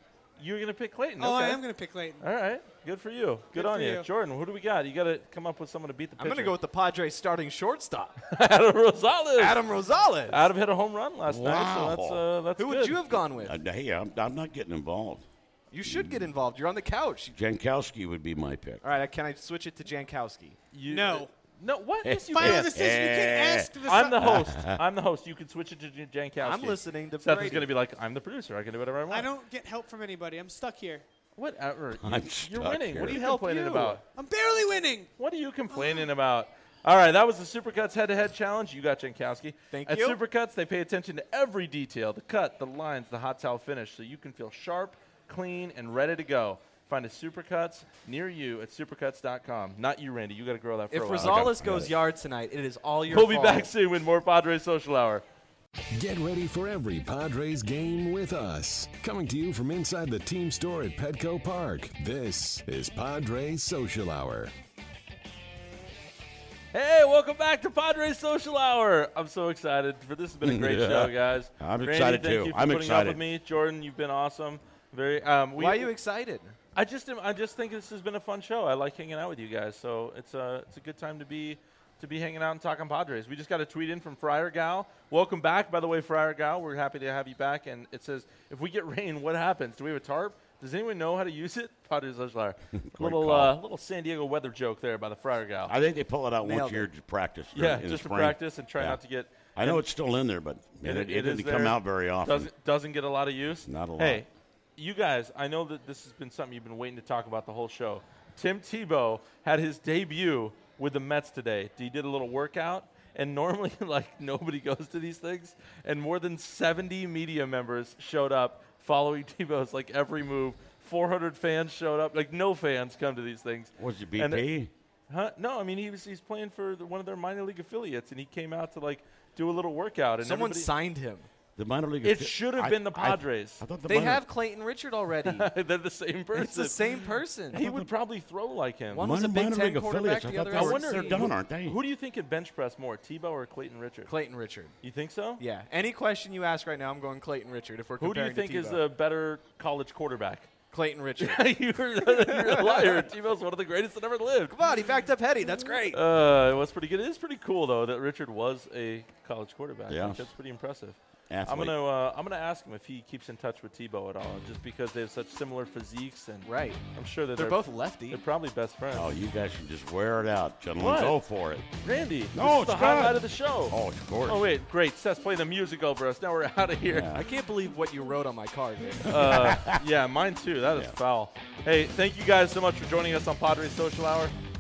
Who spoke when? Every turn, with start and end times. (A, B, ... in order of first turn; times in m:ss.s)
0:00.4-0:01.6 A
0:01.2-0:02.2 B
0:02.2-0:06.6 A
0:03.5-0:04.1 B
0:06.2-0:08.3 C
0:08.3-0:09.6 A
0:09.4-0:10.5 C
0:10.3-0:13.0 A
0:11.3-0:12.3 D
0:12.6-0:13.6 C
0:13.2-0:15.2 D
0:15.7-0:17.4 C
0:15.9-0:16.2 D
0:17.3-0:18.8 D
0:18.8-0:20.6 C
0:20.7-0:22.8 A
0:20.9-0:21.3 B
0:22.0-0:24.8 D
0:22.3-0:24.3 B
0:23.8-0:29.3 A
0:26.4-0:27.7 C
0:29.1-0:31.0 B
0:31.4-0:34.0 A
0:32.0-0:33.2 D
0:33.0-0:34.0 C
0:34.2-0:35.1 B
0:35.2-0:51.8 A
0:35.7-0:36.1 B
0:39.7-0:40.2 C
0:50.9-0:53.7 C
0:51.2-0:51.9 D
0:53.1-0:55.2 A
0:55.9-1:04.5 E
1:06.7-1:15.9 A
1:10.4-1:13.2 D
1:15.6-1:16.6 C
1:16.8-1:35.7 A
1:32.7-1:33.6 D
1:35.7-1:39.0 D
1:36.4-1:36.9 C
1:37.5-1:39.8 A
1:39.5-1:42.5 D
1:40.8-2:04.4 A
1:43.7-1:44.2 D
2:03.8-2:04.7 D
2:05.1-2:10.7 A
2:10.2-2:11.3 C
2:11.6-2:14.2 D
2:12.0-2:13.6 A
2:13.9-2:15.5 C
2:15.2-2:19.1 A
2:16.3-2:17.7 C
2:17.6-2:17.9 D
2:18.9-2:21.3 C
2:19.0-2:21.8 D
2:20.5-2:24.1 A
2:24.1-2:24.8 C
2:24.8-2:25.4 A
2:25.4-2:28.8 C
2:28.0-2:30.5 A
2:30.7-2:31.4 C
2:31.2-2:34.6 A
2:32.0-2:33.1 C
2:34.5-2:36.0 C
2:35.9-2:49.1 A
2:39.9-2:40.3 D
2:41.3-2:41.8 D
2:46.4-2:46.8 C
2:47.4-2:48.2 C
2:48.9-2:51.7 D
2:50.8-2:51.2 A
2:51.8-2:57.2 A
2:52.3-2:54.5 D
2:56.9-2:57.2 D
2:57.1-2:59.4 C
2:59.1-3:04.3 A
2:59.1-2:59.8 D